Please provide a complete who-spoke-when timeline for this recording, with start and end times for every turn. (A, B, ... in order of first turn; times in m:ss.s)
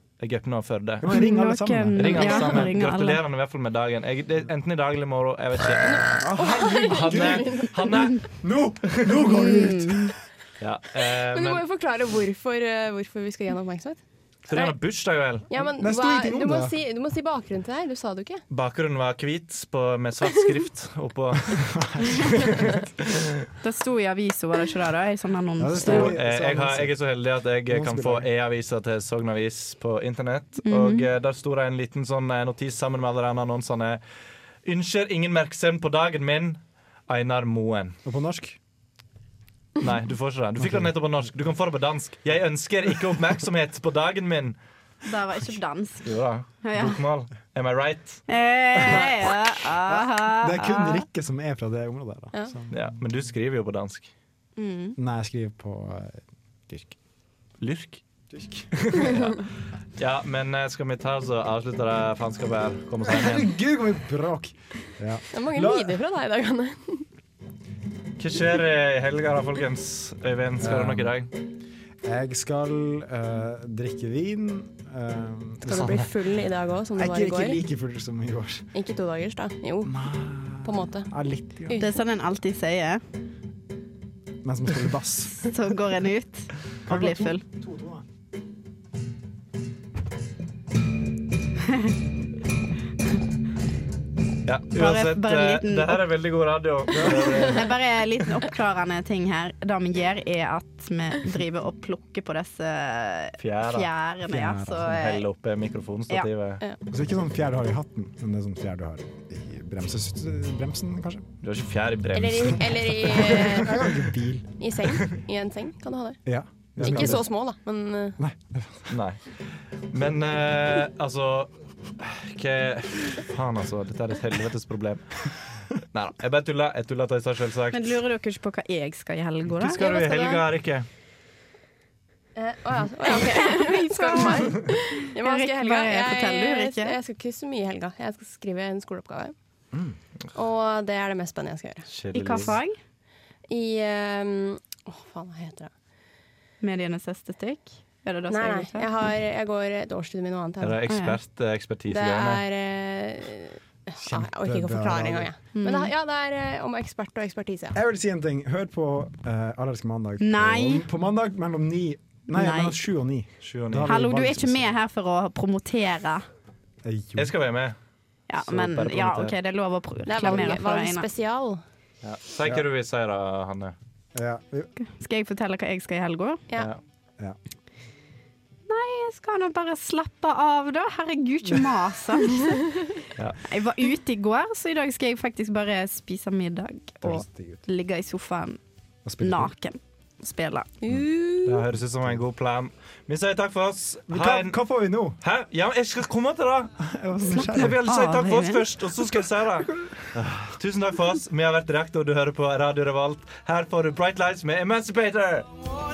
0:00.2-0:01.0 A
0:01.0-0:02.7 B
0:01.1-0:03.2 C
0:02.0-0:08.4 A
0:05.8-0:07.9 D
0:06.2-0:07.9 B
0:08.4-0:10.2 B
0:09.3-0:10.1 C
0:10.6-0:11.6 A
0:11.3-0:14.0 D
0:14.5-0:15.5 A
0:15.5-0:18.4 D
0:15.8-0:16.8 B
0:18.5-0:21.8 A
0:21.5-0:22.8 B
0:23.6-0:26.1 C
0:25.6-0:27.0 B
0:25.8-0:34.0 A
0:27.7-0:28.3 B
0:30.6-0:31.1 C
0:34.6-0:38.0 A
0:38.0-0:38.6 B
0:39.8-0:44.6 A
0:40.6-0:40.9 B
0:45.1-0:46.1 C
0:46.0-0:48.2 A
0:46.6-0:47.0 C
0:48.3-0:51.0 C
0:48.8-0:49.3 B
0:49.9-0:52.8 B
0:52.7-0:54.1 A
0:54.6-0:55.0 C
0:55.0-0:57.0 B
0:57.6-0:58.0 A
0:58.3-0:59.3 B
0:59.0-0:59.4 A
1:00.0-1:03.5 A
1:03.0-1:06.0 B
1:05.3-1:07.0 D
1:08.2-1:11.3 A
1:10.6-1:11.1 B
1:12.0-1:16.2 B
1:15.7-1:17.6 D
1:17.0-1:18.7 B
1:18.7-1:20.0 D
1:19.8-1:21.8 B
1:20.6-1:21.1 D
1:21.6-1:22.0 D
1:21.8-1:23.0 C
1:24.4-1:25.5 B
1:25.4-1:27.4 C
1:26.9-1:28.1 B
1:34.5-1:37.7 A
1:34.7-1:36.0 C
1:36.9-1:37.4 B
1:37.5-1:45.2 C
1:43.4-1:43.9 A
1:44.3-1:45.0 B
1:44.8-1:46.6 A
1:46.9-1:51.3 B
1:51.4-1:53.3 A
1:52.1-1:53.9 D
1:53.0-1:54.5 B
1:54.6-1:56.2 D
1:56.3-1:57.3 B
1:56.8-1:58.2 D
1:56.8-1:57.2 A
1:58.2-1:58.9 B
1:58.9-1:59.2 A
1:59.9-2:05.3 A
2:05.9-2:08.0 A
2:07.7-2:10.4 C
2:09.5-2:10.9 A
2:09.8-2:10.3 D
2:12.4-2:19.3 D
2:13.4-2:17.0 C
2:20.4-2:21.9 D
2:21.9-2:22.6 A
2:22.1-2:22.8 C
2:23.5-2:25.7 D
2:26.6-2:28.9 C
2:28.3-2:30.9 D
2:30.6-2:32.4 A
2:30.9-2:31.2 C
2:31.9-2:37.8 D
2:34.0-2:35.3 B
2:35.6-2:35.9 C
2:37.7-2:44.7 B
2:40.2-2:40.9 C
2:42.3-2:42.8 C
2:43.4-2:43.9 A
2:43.9-2:46.2 C
2:46.8-2:47.3 B
2:47.2-2:47.8 A
2:48.3-2:51.1 C
2:48.4-2:49.4 A
2:50.1-2:51.6 D
2:52.0-2:53.8 A
2:54.2-2:54.7 B
2:54.8-2:56.4 C
2:56.5-2:56.8 A
2:58.7-3:02.6 C
3:03.4-3:08.6 C
3:07.0-3:07.6 B
3:09.0-3:09.5 B
3:09.2-3:10.7 C
3:10.8-3:11.6 D
3:11.4-3:14.6 A
3:14.1-3:15.2 B
3:15.2-3:16.7 A
3:16.8-3:17.8 B
3:17.3-3:18.6 C
3:17.4-3:25.5 A